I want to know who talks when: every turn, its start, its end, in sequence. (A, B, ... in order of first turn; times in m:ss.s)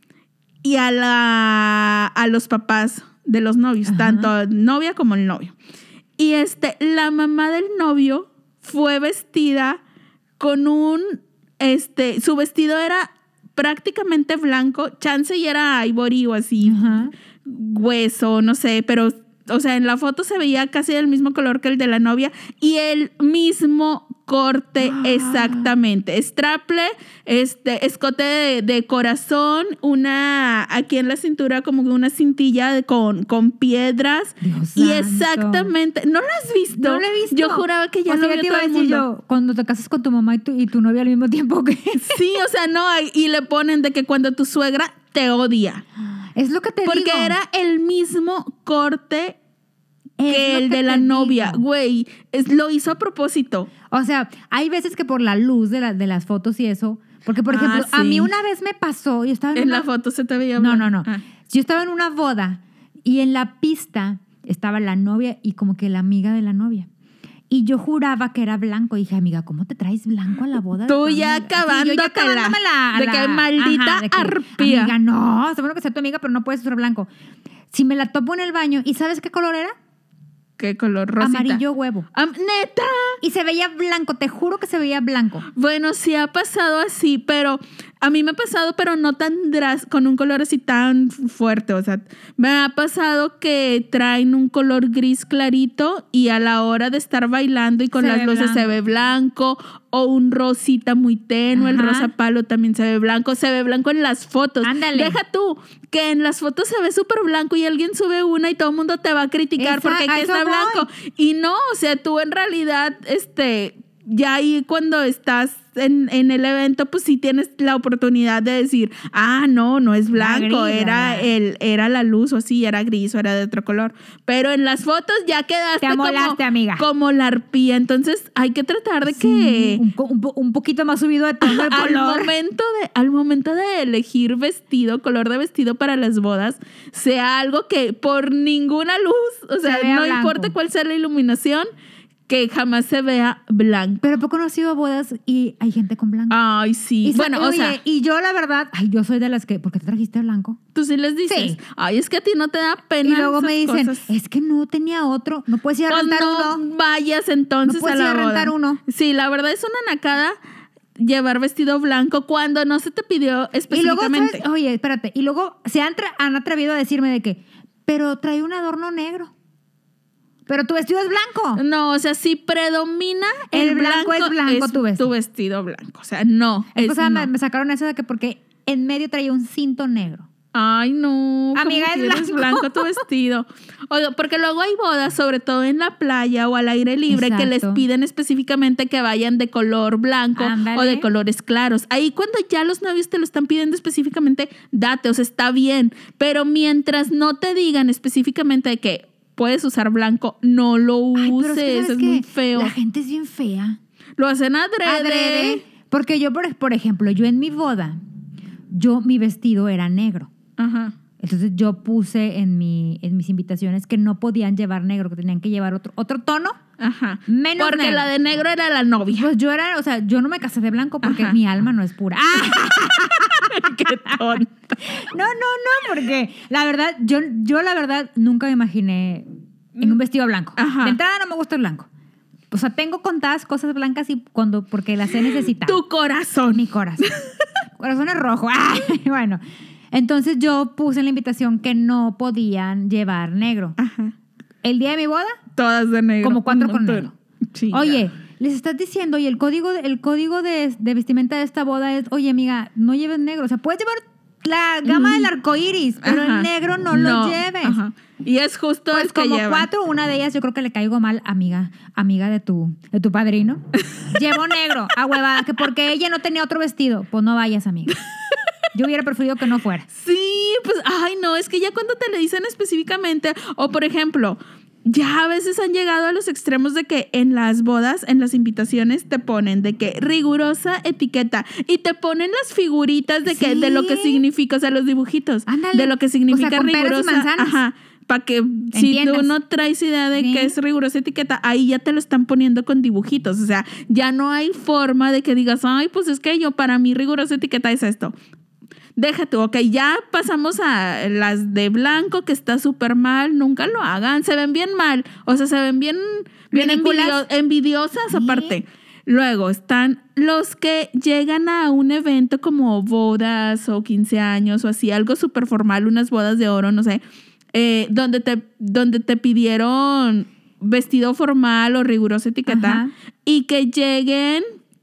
0:00.6-0:05.5 A
0:03.9-0:04.3 B
0:06.2-0:09.8 A
0:10.4-0:39.0 A
0:16.6-0:17.1 B
0:24.8-0:25.7 B
0:34.4-0:35.7 B
0:36.8-0:42.2 B
0:42.0-0:45.8 A
0:46.4-0:47.4 B
0:46.9-0:49.4 A
0:50.2-0:51.6 B
0:50.3-0:53.7 A
0:53.9-0:59.9 B
0:57.5-0:58.3 A
0:59.6-1:01.2 A
1:00.6-1:06.9 B
1:07.5-1:17.1 B
1:10.9-1:14.9 A
1:17.7-1:19.8 B
1:20.6-1:21.6 A
1:21.2-1:22.1 B
1:22.1-1:23.2 A
1:23.2-1:25.5 B
1:25.5-2:09.8 A
1:38.0-1:38.7 B
1:41.6-1:42.1 B
1:44.6-1:45.2 B
1:49.6-1:50.9 B
2:00.1-2:01.3 B
2:05.8-2:06.9 B
2:09.0-2:12.3 B
2:11.4-2:21.7 A
2:19.6-2:20.5 B
2:22.3-2:24.0 A
2:24.0-2:26.4 B
2:26.3-2:27.8 A
2:27.0-2:30.6 B
2:30.8-2:34.1 A
2:31.3-2:31.6 B
2:33.0-2:36.6 B
2:35.9-2:40.4 A
2:37.7-2:38.8 B
2:41.0-2:44.4 A
2:43.7-2:49.3 B
2:50.5-2:51.6 B
2:51.6-2:57.3 A
2:53.5-2:55.1 B
2:56.8-3:00.3 B
3:00.5-3:22.7 A
3:01.6-3:03.0 B
3:07.1-3:07.8 B
3:10.4-3:11.1 B
3:21.2-3:23.8 B
3:24.2-3:25.6 A
3:24.8-3:28.0 B
3:28.7-3:30.3 B
3:30.6-3:31.0 A
3:31.2-3:36.6 B
3:36.8-3:39.3 A
3:37.3-3:38.1 B
3:39.2-3:49.3 B
3:41.0-3:41.4 A
3:42.3-3:44.5 A
3:49.8-3:51.9 B
3:50.6-3:51.0 A
3:52.5-3:55.8 B
3:55.3-3:57.3 A
3:56.5-3:57.1 B
3:57.8-3:59.4 B
3:59.9-4:03.8 B
4:03.8-4:04.1 A
4:04.6-4:05.4 B
4:05.6-4:08.0 A
4:06.2-4:07.1 B
4:07.7-4:17.8 B
4:14.8-4:15.3 A
4:16.0-4:19.7 A
4:18.9-4:28.0 B
4:23.8-4:24.5 A
4:28.7-4:29.9 B
4:29.9-4:58.1 A
4:43.3-4:44.2 B
4:45.5-4:47.6 B
4:48.7-4:49.3 B
4:50.2-4:50.5 B
4:59.0-5:17.0 A
5:06.5-5:07.2 B
5:08.1-5:08.6 B
5:17.5-5:24.4 A
5:22.5-5:22.9 B